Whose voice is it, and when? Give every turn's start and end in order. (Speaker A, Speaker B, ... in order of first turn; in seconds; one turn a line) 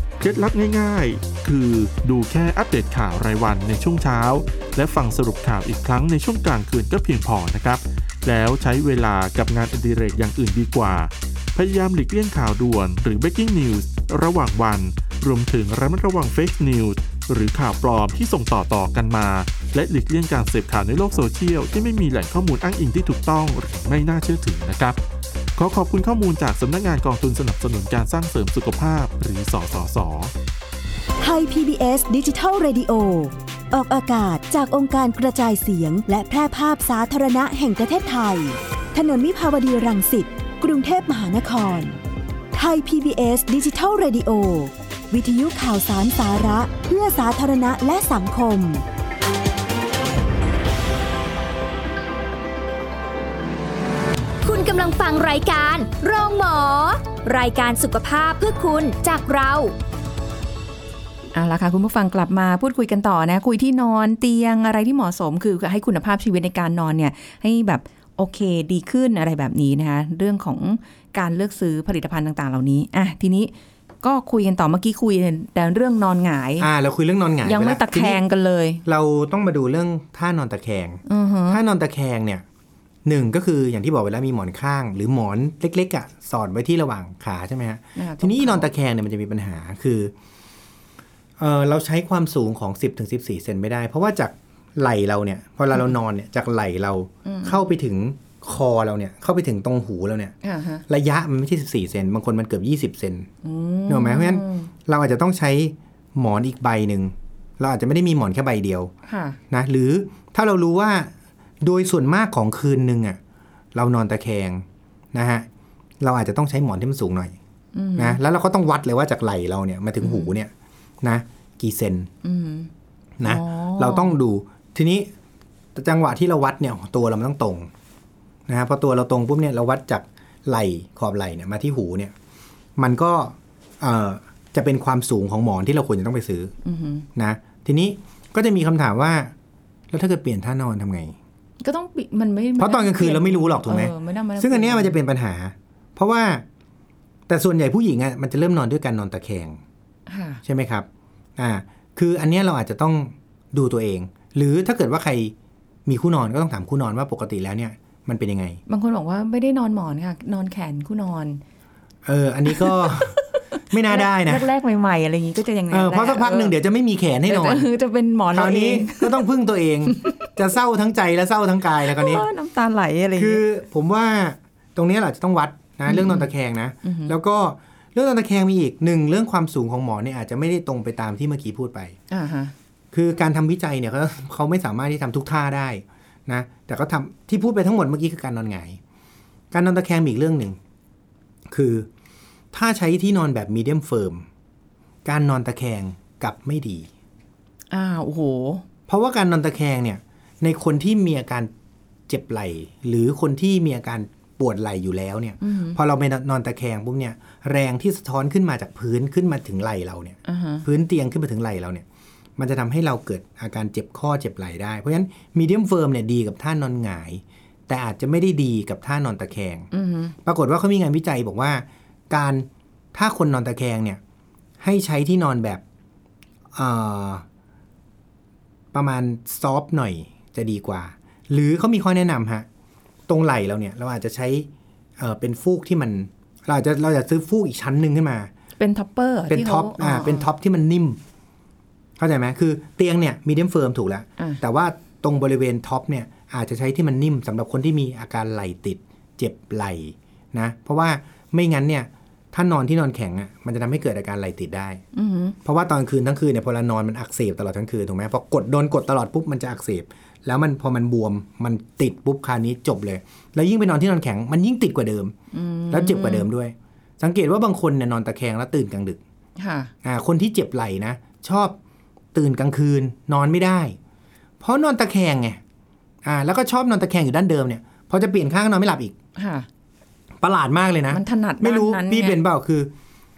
Speaker A: 0.2-25.0
Speaker A: 25.6-30.3
Speaker B: 31.2-42.0
Speaker B: 42.5-48.8
Speaker C: 54.4-59.7
Speaker D: 61.3-76.7
Speaker E: 76.6-78.2
Speaker D: 77.4-78.8
Speaker E: 78.8-82.4
Speaker D: 81.0-81.6
Speaker E: 83.0-90.1
Speaker D: 88.0-88.7
Speaker E: 91.4-100.3
Speaker D: 97.2-97.6
Speaker D: 100.4-100.8
Speaker E: 100.9-103.3
Speaker D: 103.4-104.7
Speaker E: 103.9-108.9
Speaker D: 109.0-109.4
Speaker E: 109.5-113.2
Speaker E: 113.7-115.5
Speaker E: 116.0-117.3
Speaker D: 117.7-118.2
Speaker E: 118.0-120.5
Speaker D: 120.0-120.3
Speaker E: 121.0-122.1
Speaker D: 122.2-122.7
Speaker E: 123.2-125.1
Speaker D: 123.2-124.1
Speaker E: 125.7-127.7
Speaker E: 128.5-132.1
Speaker E: 132.8-136.5
Speaker D: 136.6-137.1
Speaker E: 137.2-139.3
Speaker E: 139.9-141.2
Speaker D: 141.6-144.9
Speaker E: 142.6-146.4
Speaker E: 147.3-149.6
Speaker D: 150.1-150.4
Speaker E: 150.4-155.3
Speaker E: 155.8-158.6
Speaker D: 158.7-161.4
Speaker E: 162.1-164.5
Speaker D: 162.5-166.6
Speaker E: 165.7-167.7
Speaker D: 167.3-169.2
Speaker E: 168.3-172.2
Speaker D: 169.9-170.2
Speaker D: 171.9-173.4
Speaker E: 173.2-182.0
Speaker D: 175.8-176.3
Speaker D: 176.8-177.1
Speaker D: 182.1-182.5
Speaker E: 182.9-188.8
Speaker E: 189.5-190.6
Speaker E: 191.5-191.9
Speaker E: 192.5-194.3
Speaker E: 195.0-196.9
Speaker D: 197.7-198.6
Speaker E: 198.9-201.5
Speaker E: 202.1-211.8
Speaker D: 205.4-205.8
Speaker D: 210.2-210.6
Speaker E: 212.4-219.7
Speaker D: 219.7-220.1
Speaker E: 220.2-224.0
Speaker E: 224.6-225.6
Speaker E: 226.5-227.2
Speaker E: 228.7-232.5
Speaker E: 233.1-238.3
Speaker D: 238.6-240.3
Speaker E: 239.3-241.0
Speaker E: 242.0-254.8
Speaker D: 254.9-255.3
Speaker E: 255.4-265.1
Speaker D: 265.3-266.3
Speaker E: 265.7-269.0
Speaker D: 269.4-269.7
Speaker E: 269.8-271.6
Speaker E: 272.1-273.8
Speaker E: 274.4-275.4
Speaker E: 276.0-278.9
Speaker D: 279.1-279.5
Speaker E: 280.2-282.7
Speaker D: 280.9-282.2